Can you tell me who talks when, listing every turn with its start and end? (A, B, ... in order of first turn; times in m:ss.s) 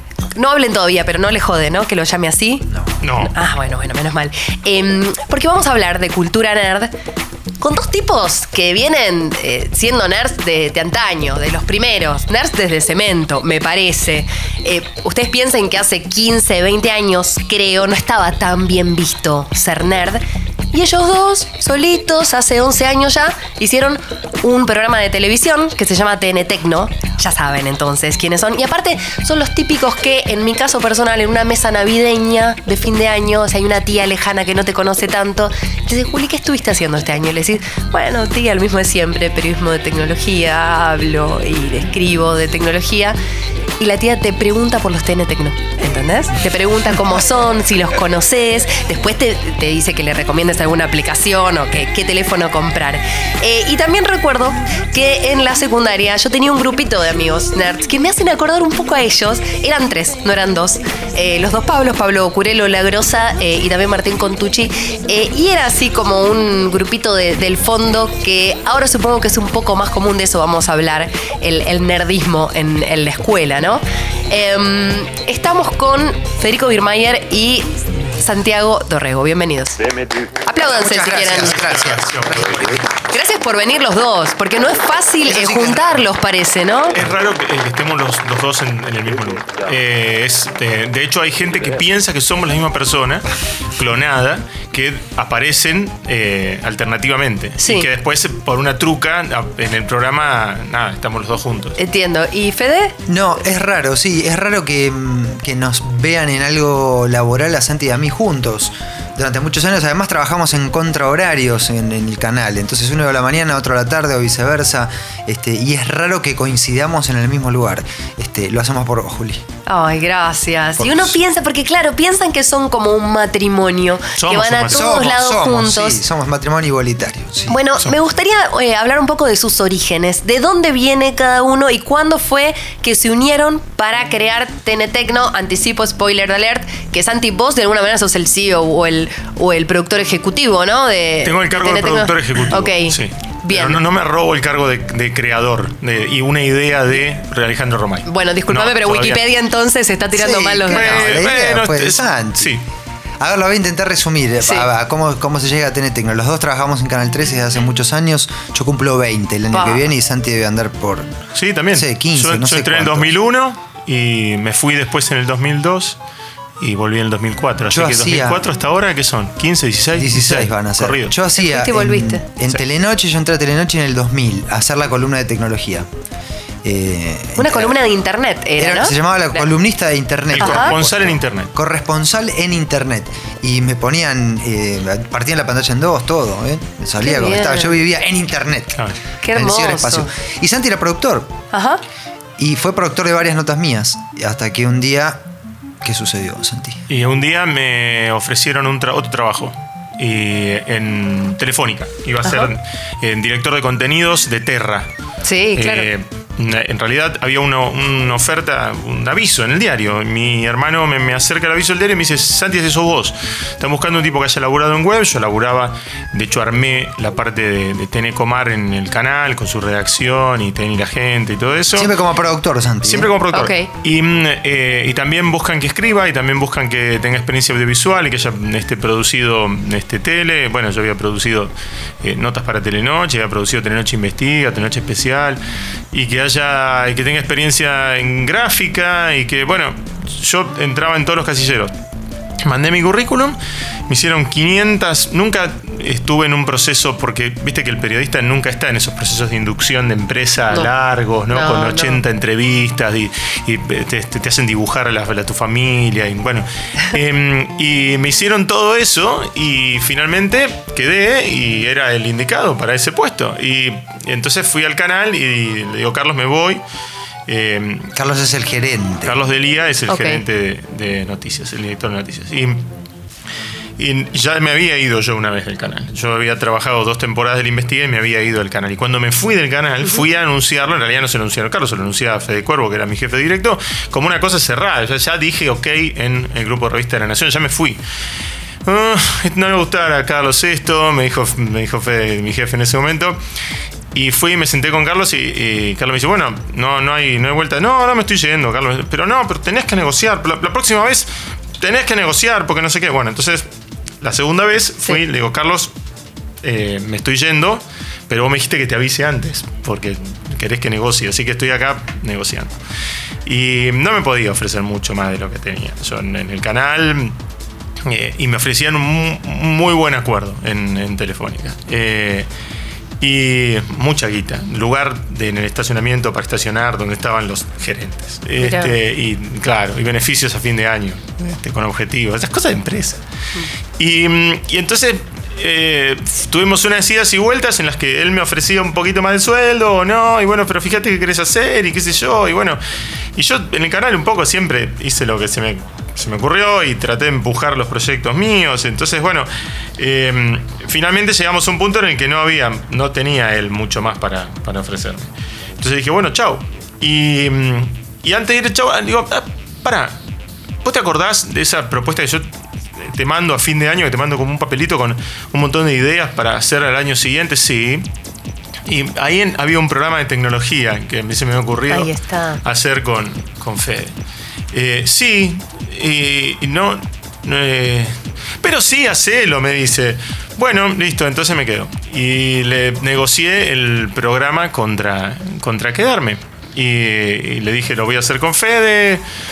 0:00.4-0:02.7 A
0:03.0-0:03.3 B
0:03.2-0:06.9 A
0:07.6-0:43.2 A
0:43.8-1:19.8 A
1:20.4-1:21.6 A
1:20.6-1:22.9 C
1:21.3-1:22.6 B
1:23.0-1:27.0 A
1:25.2-1:26.0 C
1:26.9-1:41.8 B
1:37.6-1:37.9 A
1:41.8-1:42.9 A
1:43.1-1:59.4 C
1:59.7-2:06.0 A
2:00.8-2:01.2 C
2:04.2-2:05.0 B
2:04.7-2:07.6 C
2:07.5-2:23.8 A
2:21.2-2:29.2 B
2:28.0-2:31.0 A
2:30.1-2:32.6 C
2:30.7-2:32.6 B
2:33.2-2:41.1 C
2:34.4-2:34.7 A
2:39.5-2:39.8 A
2:41.3-2:46.0 B
2:41.7-2:43.1 C
2:46.6-2:51.1 B
2:47.7-2:48.4 C
2:49.9-2:55.9 C
2:51.4-2:52.2 A
2:56.6-2:57.8 C
2:57.4-2:59.4 A
2:58.6-3:11.3 C
3:00.3-3:01.5 B
3:00.4-3:00.7 A
3:07.0-3:07.8 A
3:09.2-3:10.1 A
3:11.5-3:11.8 A
3:12.4-3:15.2 C
3:15.8-3:16.8 C
3:16.9-3:24.9 B
3:22.2-3:22.5 A
3:25.2-3:25.9 A
3:25.6-3:41.9 B
3:41.7-3:43.1 C
3:42.8-4:01.7 B
3:43.3-3:43.7 A
4:02.4-4:26.6 B
4:11.3-4:12.0 A
4:27.3-4:27.9 B
4:27.9-4:29.2 C
4:29.0-4:32.7 B
4:29.9-4:30.2 A
4:33.8-4:47.8 B
4:48.6-4:53.2 B
4:53.9-5:01.1 B
5:01.6-5:03.4 B
5:04.0-5:05.7 B
5:06.4-5:12.5 B
5:13.2-5:17.2 B
5:17.8-5:22.3 B
5:23.0-5:33.0 B
5:28.4-5:28.7 A
5:33.8-5:42.6 B
5:43.1-6:00.0 B
6:00.6-6:07.9 B
6:08.7-6:13.9 B
6:11.7-6:12.4 A
6:14.5-6:29.0 B